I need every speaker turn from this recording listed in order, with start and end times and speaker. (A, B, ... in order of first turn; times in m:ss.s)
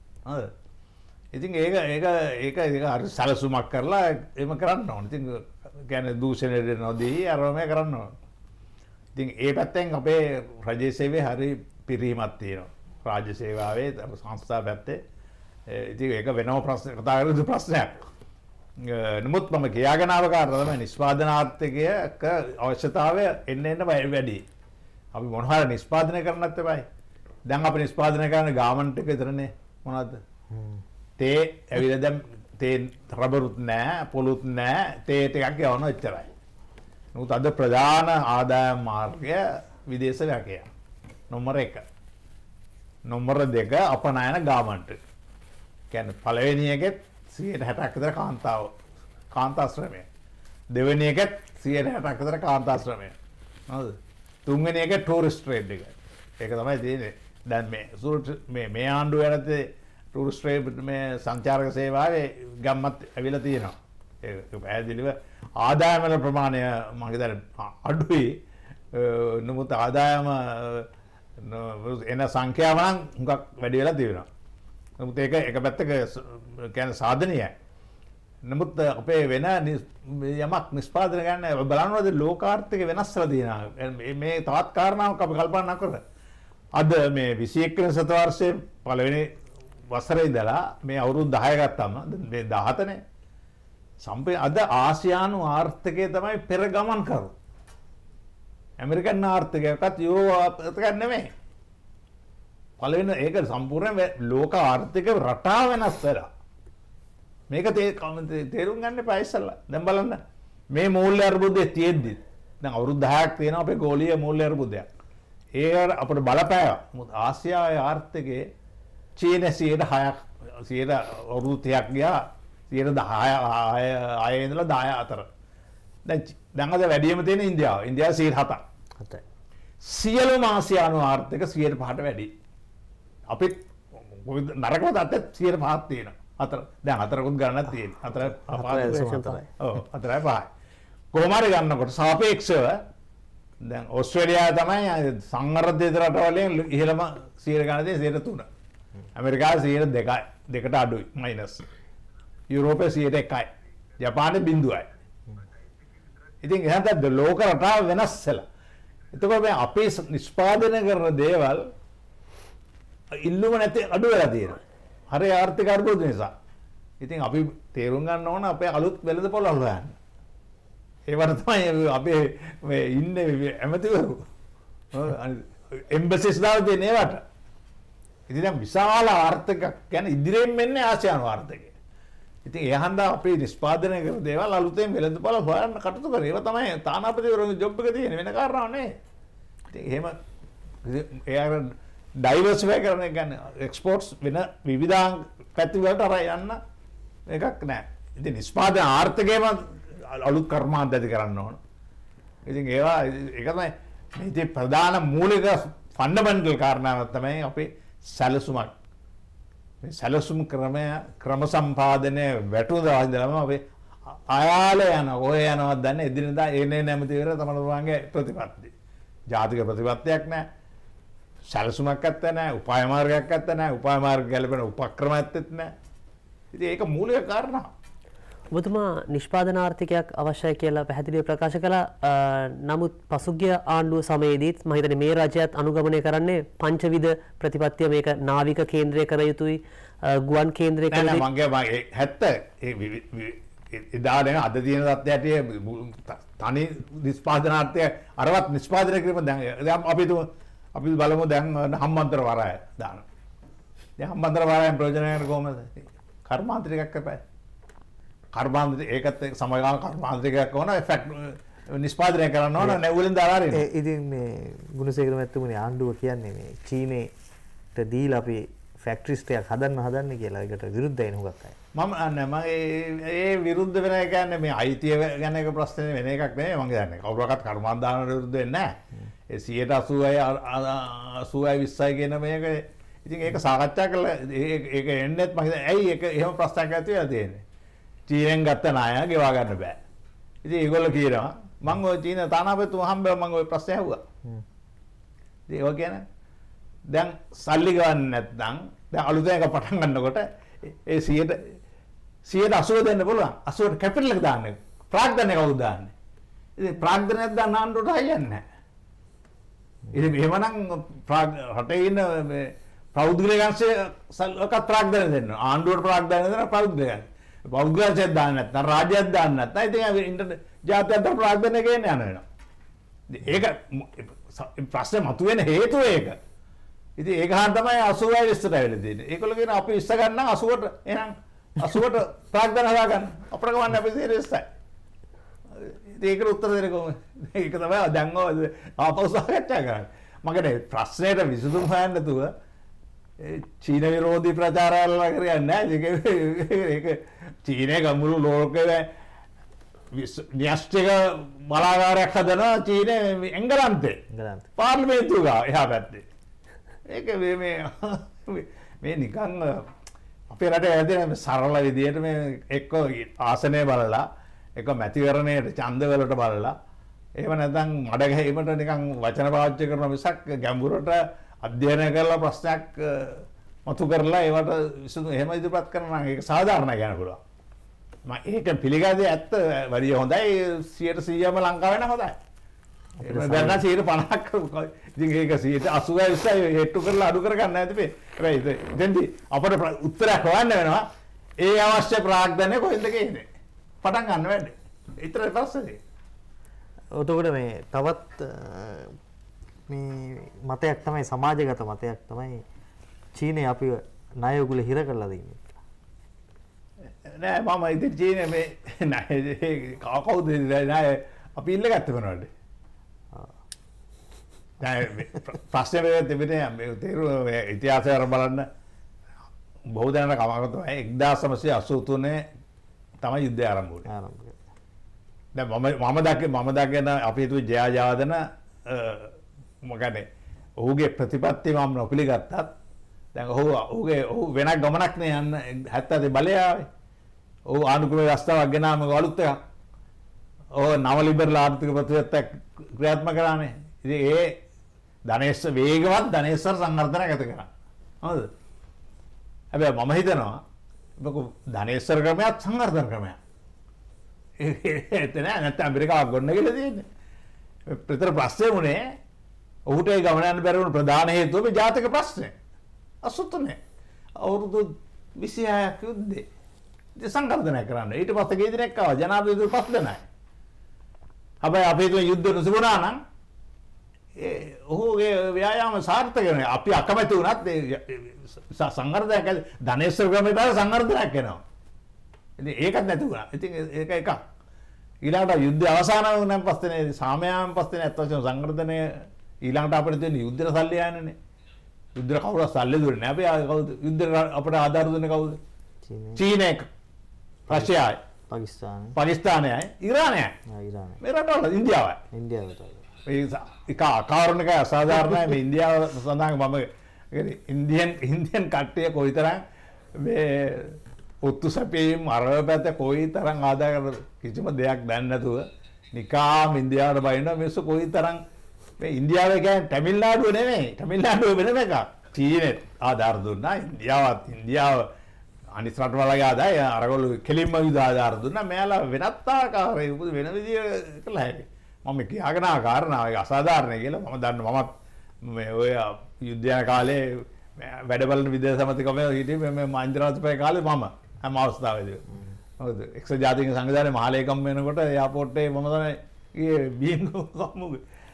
0:00.2-0:00.5 A
0:01.3-0:08.1 A
0:09.1-0:15.0 A
0:15.7-0:18.0 A
0:18.8-0:24.4 A
0:25.1-0:26.8 A
0:27.5-0:30.2 A
0:30.5-0:30.8 B
0:31.2-0:36.3 A
0:37.1-0:40.7 A
0:41.3-0:41.8 A
0:43.1-0:45.0 A
0:45.9-0:48.7 A
0:49.3-0:50.0 A
0:50.7-0:53.2 A
0:53.7-1:08.4 A
1:08.9-1:10.9 A
1:11.4-1:14.3 A
1:15.0-1:17.5 A
1:18.4-1:26.0 A
1:26.8-1:29.3 A
1:29.9-1:33.0 A
1:34.0-1:37.3 A
1:38.8-1:41.3 A
1:42.8-1:46.3 A
1:47.5-1:50.2 A
1:50.7-1:54.9 A
1:55.6-1:58.5 A
1:59.2-2:05.2 A
2:06.0-2:08.6 A
2:09.8-2:12.3 A
2:13.3-2:13.6 A
2:14.1-2:20.5 A
2:18.4-2:19.5 B
2:18.7-2:19.4 C
2:21.1-2:22.8 A
2:23.6-2:28.5 A
2:29.1-2:31.6 A
2:32.5-2:33.5 A
2:34.0-2:34.9 A
2:36.4-2:38.4 A
2:39.1-2:41.7 A
2:43.1-2:44.6 A
2:45.1-2:46.3 A
2:47.0-2:50.0 A
2:51.1-2:54.2 A
2:54.9-2:57.2 A
2:58.3-3:01.7 A
3:02.4-3:09.0 A
3:09.7-3:10.1 A
3:10.8-3:16.6 A
3:17.3-3:21.6 A
3:22.4-3:28.7 A
3:29.8-3:33.6 A
3:34.3-3:38.7 A
3:39.3-3:40.4 A
3:41.5-3:45.7 A
3:46.5-3:47.7 A
3:48.5-4:01.2 C
4:00.9-4:13.0 A
4:14.0-4:17.2 A
4:18.3-4:23.6 A
4:23.5-4:27.1 B
4:27.7-4:31.6 B
4:31.7-4:38.7 A
4:39.3-4:47.4 A
4:48.1-4:49.8 A
4:50.4-4:54.0 A
4:55.5-4:56.0 A
4:56.9-5:01.5 A
5:02.2-5:05.9 A
5:06.6-5:08.4 A
5:09.9-5:22.2 A
5:23.1-5:26.2 A
5:27.0-5:34.4 A
5:35.5-5:42.3 A
5:43.2-5:48.9 A
5:49.9-5:54.0 A
5:54.1-5:54.5 B
5:54.6-5:56.0 A
5:56.9-5:59.6 A
6:00.3-6:04.0 A
6:04.6-6:06.5 A
6:07.2-6:17.2 A
6:18.0-6:22.2 A
6:23.0-6:23.6 B
6:23.0-6:30.8 A
6:31.4-6:33.2 A
6:33.8-6:35.8 A
6:36.9-6:39.0 B
6:39.7-6:42.4 B
6:43.1-6:45.6 B
6:47.0-6:52.3 A
6:54.6-6:58.4 A
6:59.7-7:02.2 A
7:03.0-7:03.9 A
7:03.8-7:04.4 B
7:05.3-7:10.0 A
7:10.6-7:12.5 A
7:13.1-7:16.7 A
7:17.5-7:19.4 A
7:20.6-7:24.4 A
7:25.1-7:27.5 A
7:28.0-7:28.3 A
7:29.5-7:30.4 A
7:31.0-7:33.2 A
7:34.4-7:36.8 A
7:37.7-7:38.8 A
7:39.7-7:42.3 A
7:43.0-7:43.6 A
7:44.2-7:46.3 A
7:47.0-7:50.0 A
7:51.4-7:53.0 A
7:54.2-8:01.4 A
8:02.4-8:04.2 A
8:05.0-8:11.2 A
8:12.0-8:15.4 A
8:15.9-8:16.2 B
8:16.2-8:16.7 A
8:17.5-8:17.7 B
8:17.5-8:18.0 A
8:18.3-8:19.0 B
8:19.0-8:20.3 A
8:20.5-8:21.0 B
8:21.0-8:22.0 A
8:22.1-8:22.8 B
8:23.1-8:29.4 A
8:30.0-8:38.2 A
8:38.8-8:44.9 A
8:45.5-8:54.7 A
8:55.2-9:02.0 A
9:02.6-9:07.8 A